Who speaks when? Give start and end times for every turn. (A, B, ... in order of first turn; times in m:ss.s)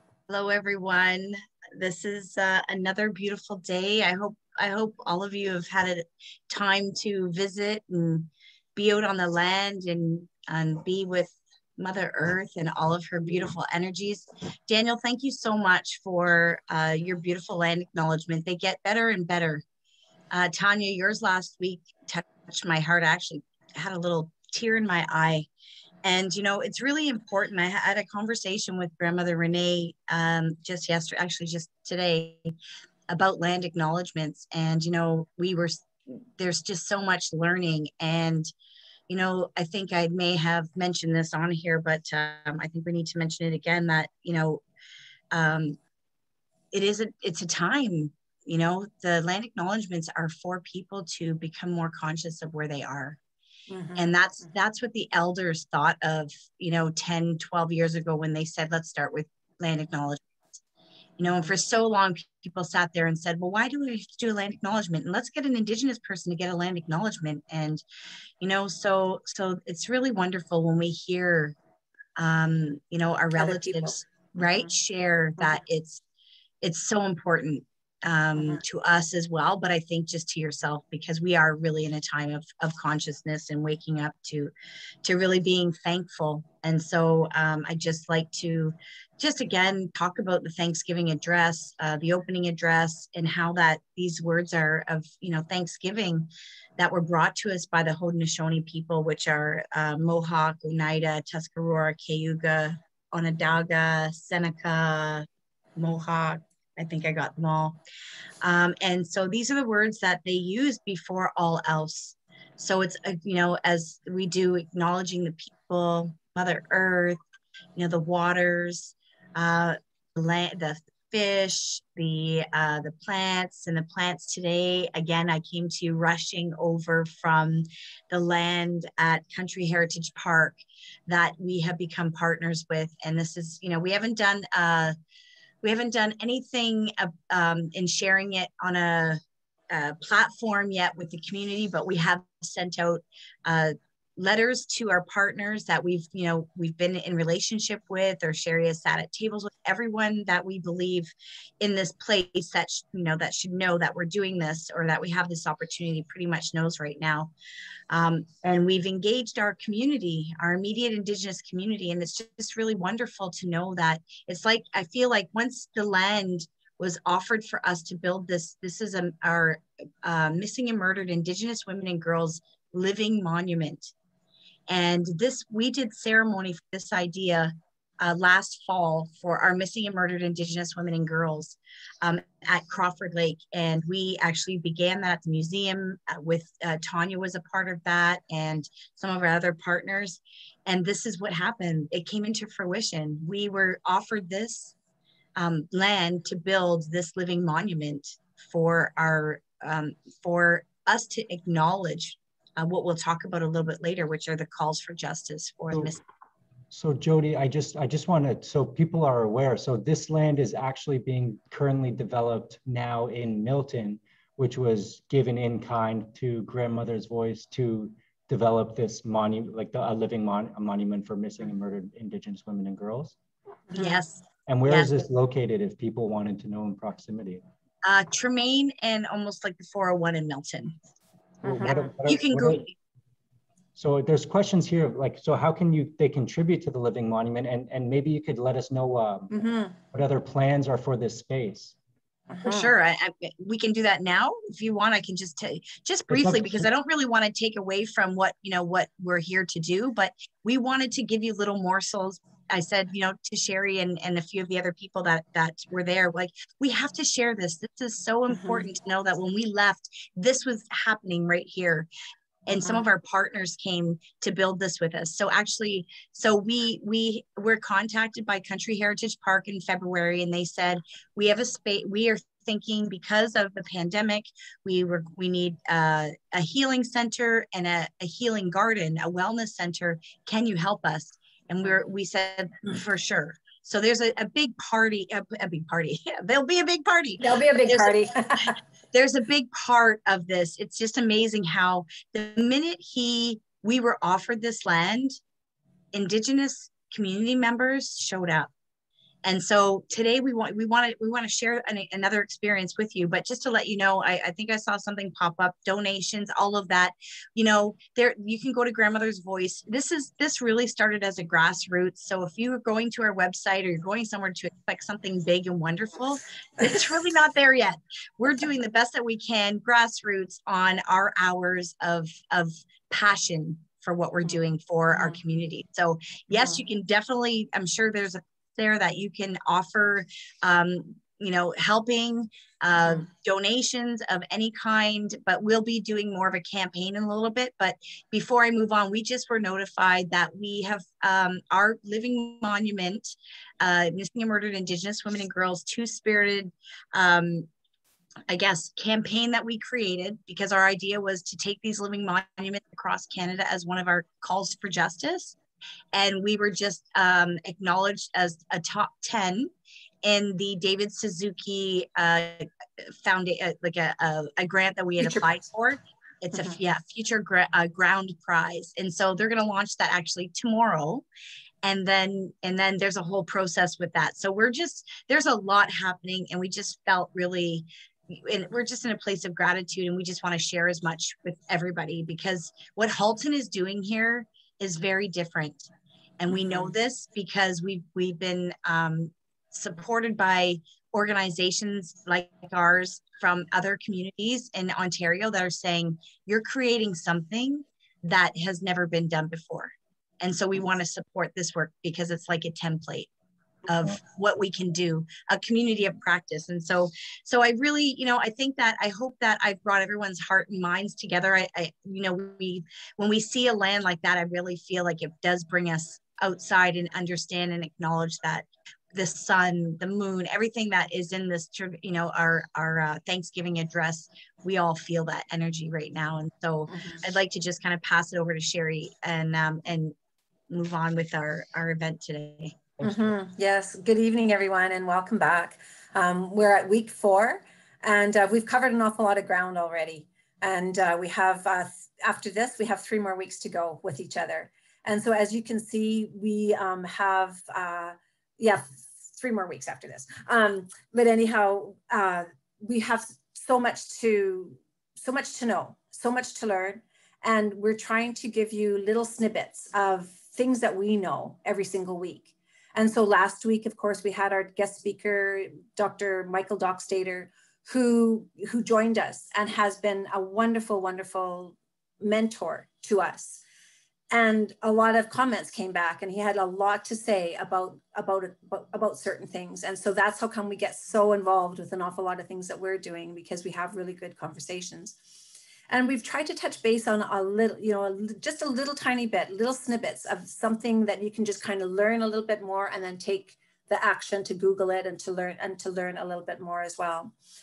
0:00.3-0:19.6 A
0:20.3-0:25.5 A
0:26.0-0:32.5 A
0:33.1-0:38.5 A
0:39.1-0:44.6 A
0:45.3-0:45.8 A
0:46.7-0:53.2 A
0:53.7-0:54.2 B
0:54.0-1:00.2 A
1:01.2-1:07.8 A
1:08.4-1:11.6 A
1:12.2-1:16.0 A
1:13.4-1:14.6 B
1:16.6-1:24.5 A
1:25.0-1:47.8 A
1:48.4-1:57.2 A
1:57.8-2:15.0 A
2:15.6-2:37.3 A
2:37.9-2:53.9 A
2:54.7-3:14.8 A
3:15.4-3:26.0 A
3:26.7-3:43.2 C
3:43.7-3:44.0 B
3:43.7-3:45.0 A
3:44.5-3:47.4 C
3:47.8-3:50.8 A
3:51.4-3:52.7 C
3:51.4-3:51.8 B
3:51.6-3:52.7 A
3:53.8-3:59.3 C
3:59.3-3:59.8 B
3:59.9-4:01.8 C
4:02.3-4:02.7 B
4:02.4-4:21.9 A
4:06.1-4:06.7 C
4:18.3-4:18.7 B
4:22.5-4:48.0 A
4:47.2-4:48.6 B
4:48.9-4:55.2 A
4:55.9-4:58.5 A
4:59.2-5:47.5 A
5:48.3-5:55.4 A
5:55.9-5:59.5 A
6:00.0-6:11.1 A
6:05.0-6:05.3 B
6:11.6-6:43.1 A
6:26.4-6:26.7 B
6:43.7-7:10.0 A
7:06.7-7:07.0 B
7:10.5-7:12.6 A
7:12.8-7:13.1 C
7:12.8-7:53.4 B
7:54.1-8:05.0 B
8:05.7-8:17.1 B